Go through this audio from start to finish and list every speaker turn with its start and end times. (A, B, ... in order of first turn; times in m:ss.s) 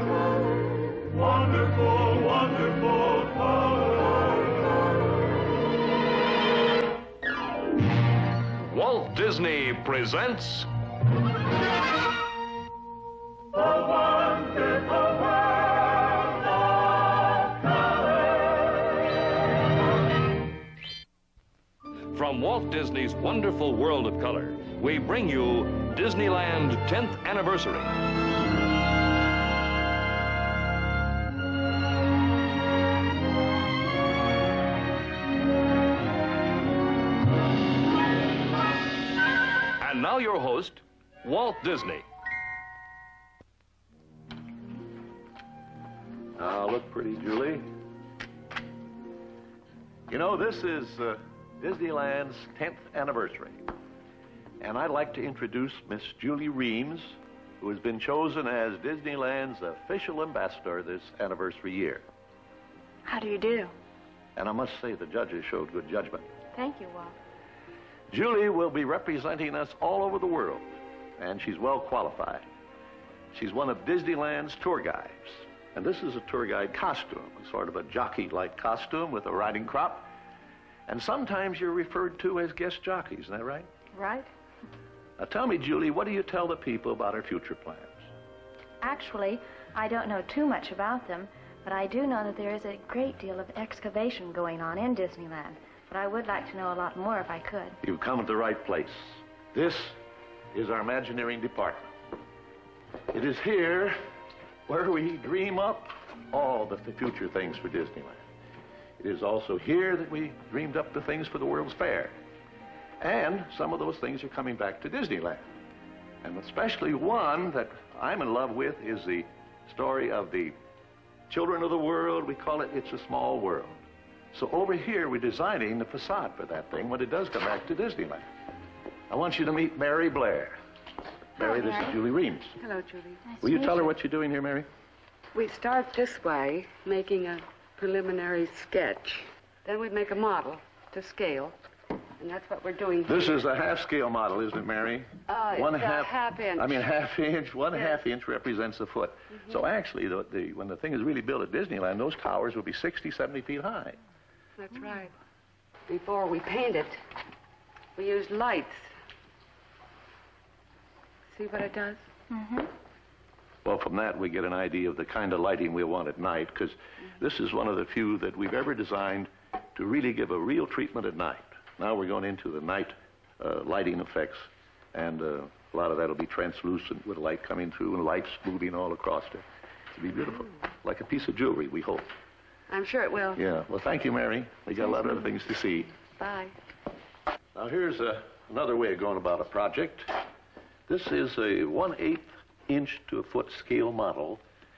0:01.1-0:04.1 A
0:08.6-0:10.7 A
0:22.1-0:27.9 A
0:39.8-0:42.0 A
0:46.4-0:47.7 B
0:50.1-0:53.6 B
0:54.6-1:02.0 B
1:03.0-1:03.7 C
1:04.4-1:06.3 B
1:06.5-1:07.2 C
1:08.1-1:12.5 B
1:13.3-1:20.1 B
1:20.9-1:23.7 B
1:23.9-1:24.3 C
1:25.2-1:28.0 B
1:28.8-1:37.8 C
1:37.8-1:40.0 B
1:40.5-1:41.9 B
1:43.1-1:44.0 B
1:44.6-1:48.3 B
1:49.0-1:52.1 B
1:53.0-1:55.5 B
1:56.2-2:00.6 B
2:01.3-2:08.3 B
2:09.1-2:10.6 B
2:11.4-2:12.5 B
2:11.4-2:12.0 C
2:12.6-2:13.2 D
2:13.2-2:13.9 C
2:13.4-2:14.7 B
2:15.3-2:21.5 D
2:22.2-2:23.5 D
2:23.0-2:34.0 B
2:25.3-2:26.9 D
2:34.6-2:35.1 D
2:35.9-2:37.0 D
2:38.0-2:38.9 D
2:41.3-2:42.0 D
2:42.3-2:42.7 C
2:43.6-3:02.1 B
3:02.7-3:03.4 D
3:03.3-3:05.9 B
3:06.0-3:06.5 D
3:07.5-3:10.1 B
3:10.9-3:14.4 B